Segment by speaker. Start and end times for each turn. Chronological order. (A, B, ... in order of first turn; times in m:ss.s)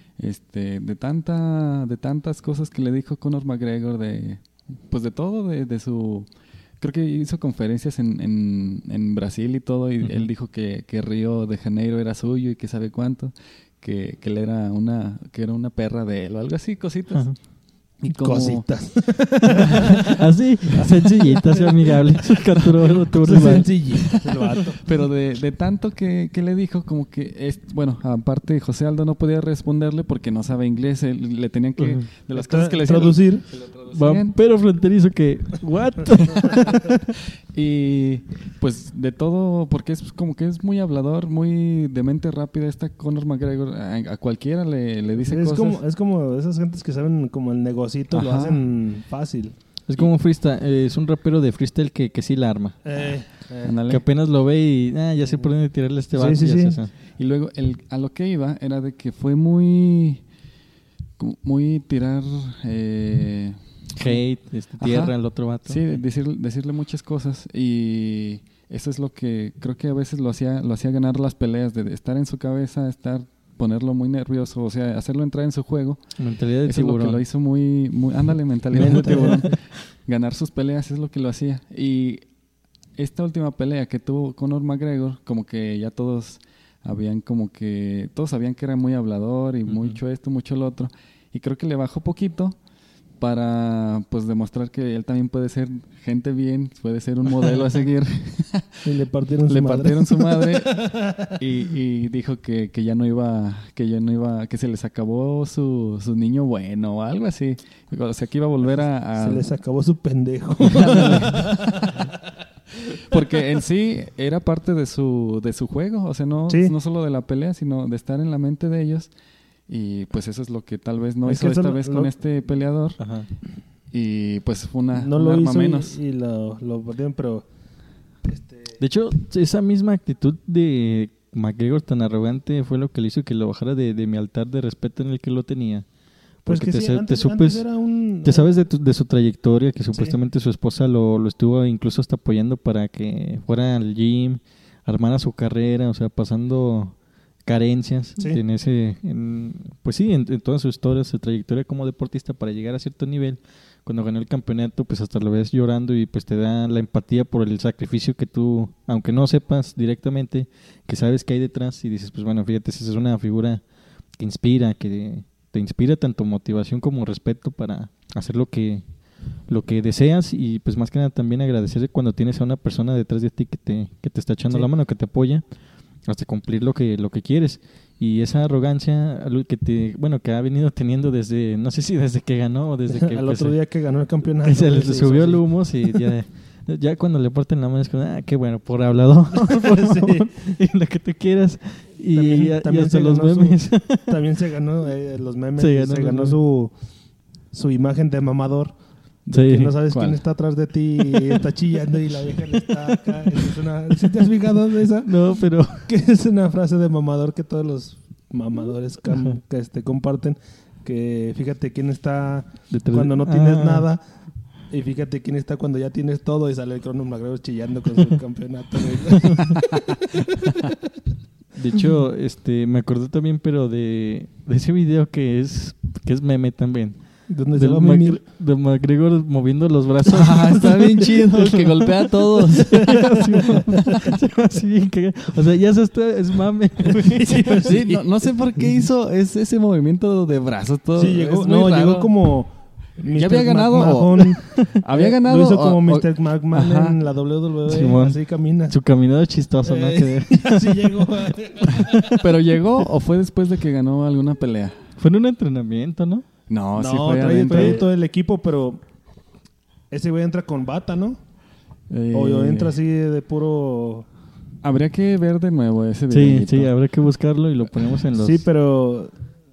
0:00.2-0:17.4 A
0:10.0-0:10.3 B
0:18.0-0:19.8 C
0:18.1-0:19.2 A
0:20.0-0:24.2 B
0:20.8-0:21.7 C
0:22.6-0:34.4 A
0:23.1-0:24.8 C
0:31.8-0:32.1 B
0:32.3-0:33.5 C
0:33.9-0:37.0 B
0:36.3-0:45.8 A
0:45.2-0:49.6 C
0:48.1-0:48.6 A
0:49.9-0:52.8 B
0:52.8-0:53.7 C
0:53.6-0:54.0 A
0:53.9-0:56.9 B
0:56.1-0:56.8 C
0:57.1-1:00.2 A
1:01.2-1:04.2 A
1:04.0-1:06.0 B
1:04.8-1:22.3 A
1:16.2-1:17.2 B
1:18.7-1:19.4 C
1:18.8-1:19.5 B
1:23.0-1:32.6 A
1:29.7-1:30.0 B
1:33.2-1:38.8 A
1:38.8-1:41.3 C
1:39.5-1:49.5 A
1:49.2-1:52.0 C
1:50.6-1:52.0 A
1:53.0-1:59.2 A
1:56.5-1:56.7 C
1:59.7-2:06.0 A
2:01.3-2:02.1 C
2:03.0-2:03.3 B
2:04.9-2:07.5 C
2:08.2-2:08.8 C
2:08.8-2:15.9 B
2:16.4-2:17.6 B
2:16.5-2:18.5 C
2:18.2-2:43.6 B
2:44.2-3:03.6 B
3:02.9-3:05.6 C
3:04.4-3:14.2 B
3:09.4-3:10.4 C
3:12.1-3:16.8 C
3:15.6-3:16.4 B
3:17.5-3:34.0 C
3:19.3-3:19.8 B
3:19.9-3:20.2 A
3:25.0-3:25.9 B
3:32.7-3:33.9 B
3:34.7-3:40.7 C
3:41.5-3:57.8 B
3:47.3-3:48.2 C
3:50.1-3:54.1 A
3:56.9-3:58.0 C
3:57.5-4:02.1 A
4:01.0-4:08.8 C
4:03.1-4:07.0 A
4:07.7-4:11.1 B
4:09.6-4:12.2 C
4:12.2-4:14.8 A
4:15.0-4:16.2 B
4:16.5-4:17.8 A
4:16.8-4:18.8 C
4:17.5-4:17.8 B
4:19.9-4:21.2 C
4:21.9-4:22.8 A
4:22.1-4:24.1 C
4:24.6-4:26.7 A
4:26.1-4:28.5 B
4:28.2-4:29.2 C